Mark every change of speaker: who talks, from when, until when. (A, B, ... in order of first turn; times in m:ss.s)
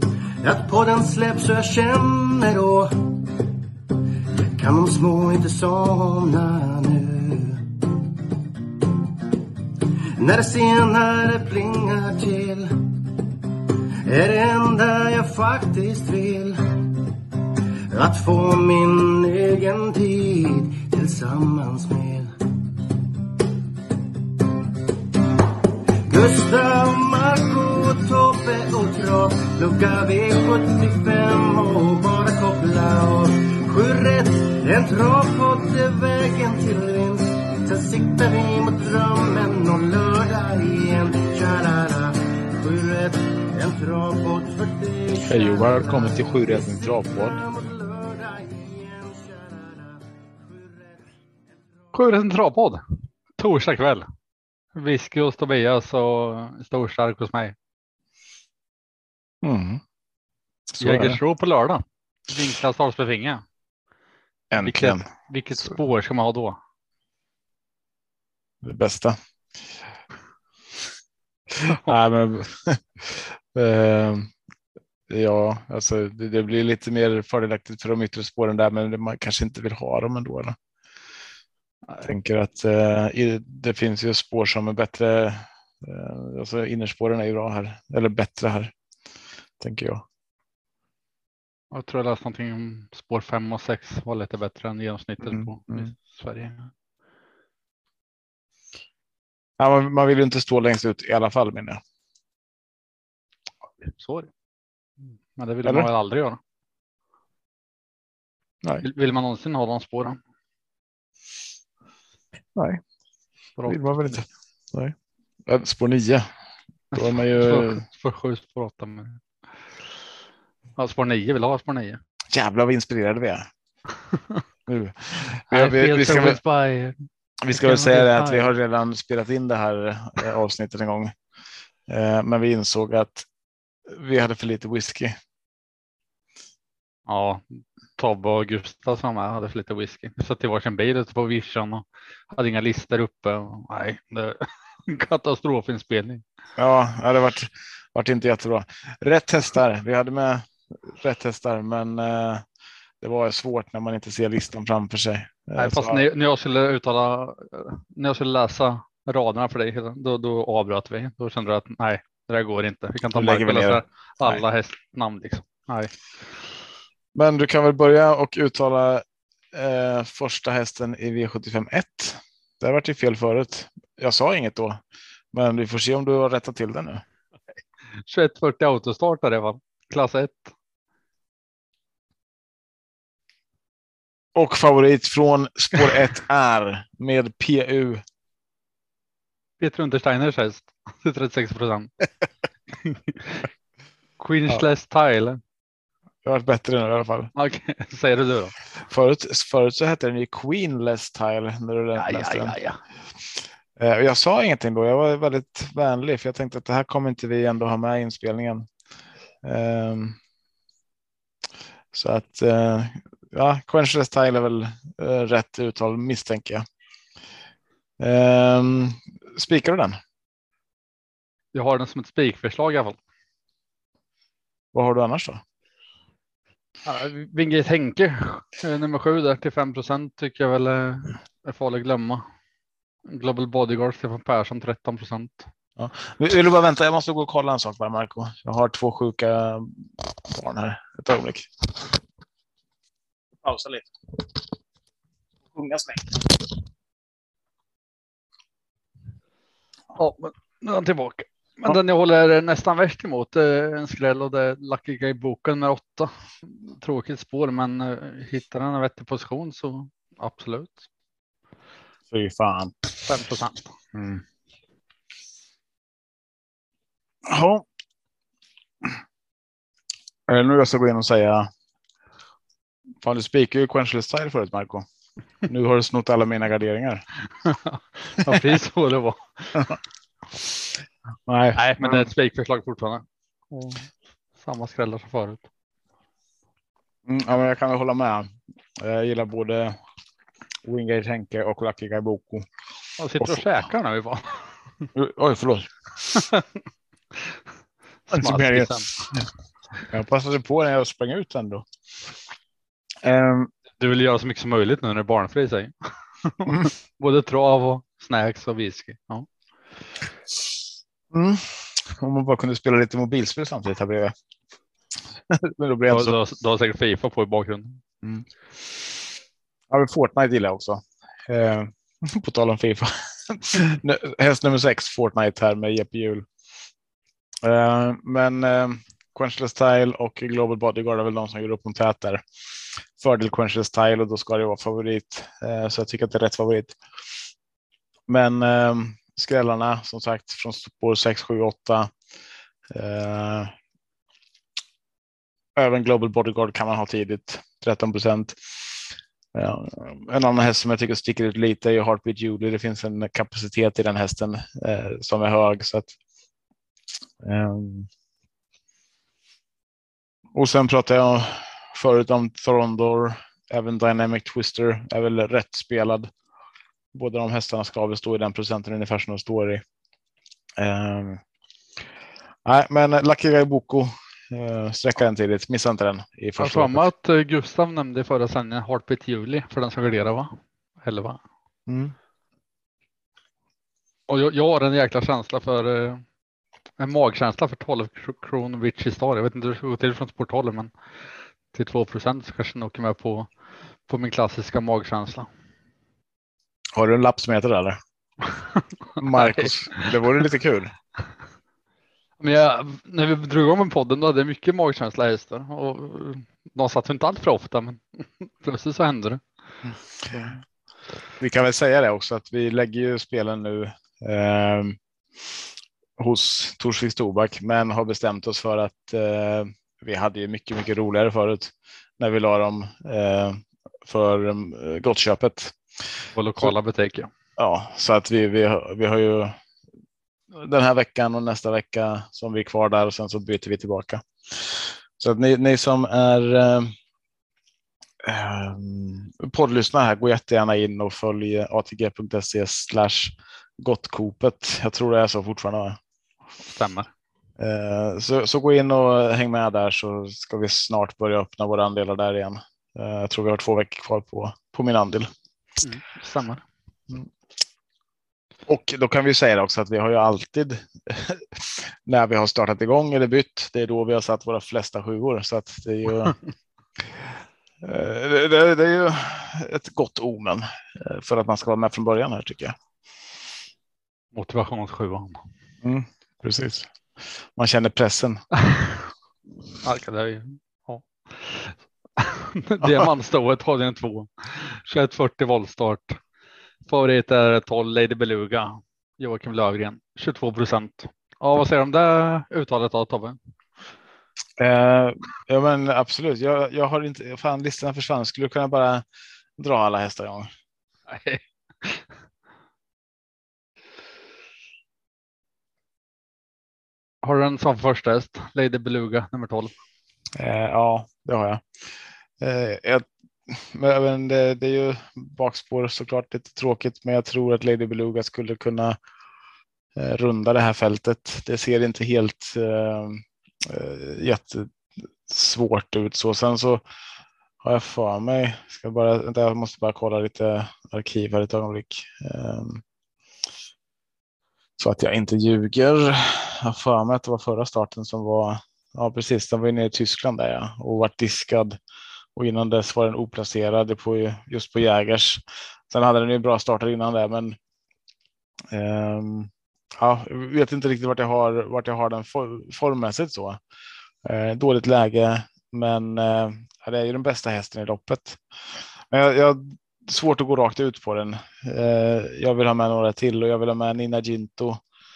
0:00.4-0:03.2 A
0:04.5-0:07.6 A
0:10.1-0:13.0 A
0:14.0-0:16.9 A
0:17.9-0:22.3 A
0:26.1-0:51.9 A
0:45.2-0:47.4 B
0:51.9-0:52.8 C
0:53.4-0:54.1 C
0:54.7-0:57.5 C
0:59.4-0:59.8 B
1:00.8-1:01.2 B
1:00.8-1:03.4 C
1:04.5-1:05.0 B
1:04.6-1:06.6 C
1:08.6-1:09.2 B
1:11.5-1:14.3 B
1:11.6-1:11.9 C
1:15.1-1:20.6 B
1:22.0-1:28.7 B
1:29.6-1:30.0 B
1:31.7-1:36.7 C
1:35.3-1:35.8 B
1:39.6-1:41.8 B
1:43.9-1:44.3 C
1:45.4-1:46.4 C
1:45.6-1:45.9 B
1:48.8-1:50.2 C
1:52.5-1:52.8 B
1:53.6-1:54.2 C
1:53.7-1:54.9 B
1:55.4-1:56.3 B
1:56.9-1:59.2 C
1:56.9-1:57.8 B
2:00.8-2:02.0 C
2:02.3-2:03.5 B
2:04.1-2:04.4 C
2:04.7-2:06.4 B
2:05.5-2:07.0 C
2:07.4-2:11.1 B
2:07.5-2:08.5 C
2:11.9-2:13.2 B
2:13.9-2:15.1 B
2:17.1-2:17.4 C
2:18.0-2:26.2 C
2:26.6-2:32.4 B
2:33.0-2:36.0 B
2:35.6-2:45.9 C
2:43.1-2:44.4 B
2:47.1-2:54.8 B
2:55.3-2:57.0 B
2:58.1-3:00.5 C
3:04.3-3:08.0 B
3:09.6-3:11.9 C
3:12.8-3:13.4 C
3:14.2-3:15.4 C
3:16.2-3:17.3 B
3:17.4-3:18.5 C
3:18.9-3:22.6 B
3:22.0-3:22.8 C
3:23.4-3:28.7 B
3:29.4-3:30.2 B
3:31.9-3:36.6 B
3:38.0-3:40.0 B
3:41.5-3:43.0 C
3:44.7-3:45.4 B
3:46.8-3:52.2 C
3:53.1-3:55.5 C
3:55.8-4:02.0 B
4:03.4-4:04.4 B
4:05.5-4:06.6 B
4:09.9-4:20.8 C
4:22.1-4:23.0 B
4:23.0-4:23.7 C
4:23.9-4:24.2 B
4:27.2-4:27.6 B
4:30.3-4:31.5 B
4:33.0-4:34.9 B
4:35.4-4:37.0 B
4:37.4-4:39.8 C
4:41.3-4:42.1 B
4:41.6-4:45.4 C
4:47.0-4:49.8 B
4:50.6-4:52.5 B
4:53.0-4:54.8 C
4:53.2-4:53.4 B
4:54.9-4:56.1 B
4:56.1-4:56.4 C
4:58.1-4:59.1 C
4:58.1-4:59.3 B
4:59.9-5:01.6 B
5:03.0-5:03.5 B
5:03.8-5:09.3 C
5:11.1-5:14.1 B
5:15.3-5:16.2 B
5:15.9-5:17.8 C
5:19.7-5:26.2 B
5:27.4-5:32.2 B
5:33.0-5:36.8 B
5:38.1-5:41.9 B
5:42.7-5:43.5 B
5:45.6-5:55.9 B
5:57.2-5:57.9 B
6:00.3-6:06.1 B
6:06.9-6:09.6 B
6:10.6-6:11.2 B
6:12.4-6:16.9 B
6:16.4-6:21.2 C
6:21.7-6:21.9 B
6:24.1-6:26.0 C
6:26.8-6:30.7 C
6:31.5-6:33.3 C
6:33.9-6:35.3 C
6:36.7-6:37.8 B
6:38.2-6:39.9 C
6:39.0-6:40.7 B
6:42.2-6:49.2 C
6:49.6-6:50.3 B
6:51.2-6:55.4 B
6:56.0-7:05.6 B
7:06.1-7:07.1 C
7:07.4-7:09.4 B
7:10.3-7:16.7 B
7:18.0-7:25.8 B
7:26.5-7:26.9 C
7:27.4-7:35.1 B
7:35.6-7:36.4 C
7:38.5-7:46.2 B
7:47.6-7:52.6 B
7:54.1-7:55.2 C
7:55.6-7:56.7 B
7:57.3-7:58.2 B
7:59.6-8:06.0 C
8:06.7-8:13.2 C
8:14.4-8:18.8 B
8:19.4-8:20.3 B
8:20.9-8:21.9 C
8:27.0-8:29.5 C
8:30.2-8:31.4 B
8:32.2-8:38.8 B
8:39.8-8:46.6 B
8:47.4-8:52.6 B
8:54.6-9:01.6 B
9:02.2-9:07.4 B
9:08.5-9:13.4 B
9:14.0-9:18.2 B
9:18.9-9:24.6 B